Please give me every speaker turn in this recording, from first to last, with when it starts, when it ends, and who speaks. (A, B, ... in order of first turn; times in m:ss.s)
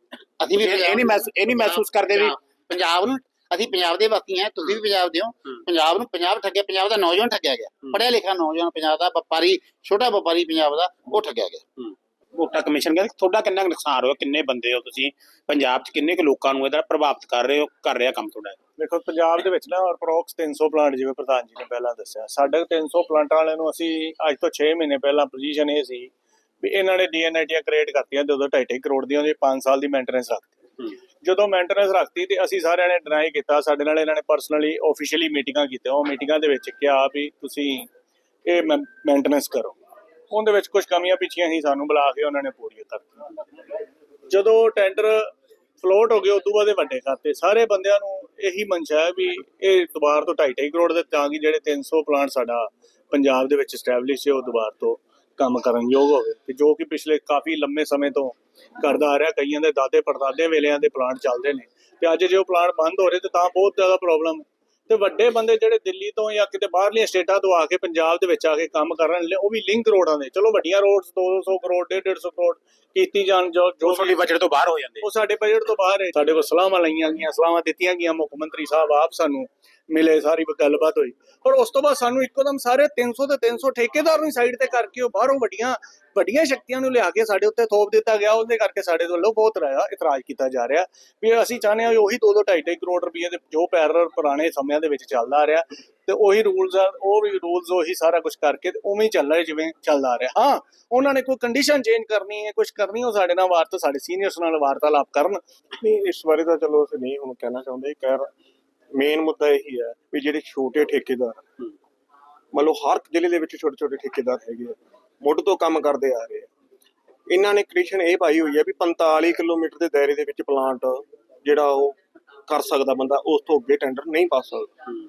0:00.4-0:11.6 A
0:00.6-0:02.4 B
0:11.8-0:18.6 B
0:18.8-0:26.1 C
0:26.6-0:30.5 C
0:31.2-0:37.9 C
0:38.4-0:39.8 C
0:40.3-0:43.2 C
0:44.3-1:14.2 C
1:13.8-1:15.0 B
1:15.0-1:45.4 C
1:45.8-1:48.3 D
1:48.9-1:51.4 D
1:52.5-1:56.5 D
1:57.3-2:04.7 D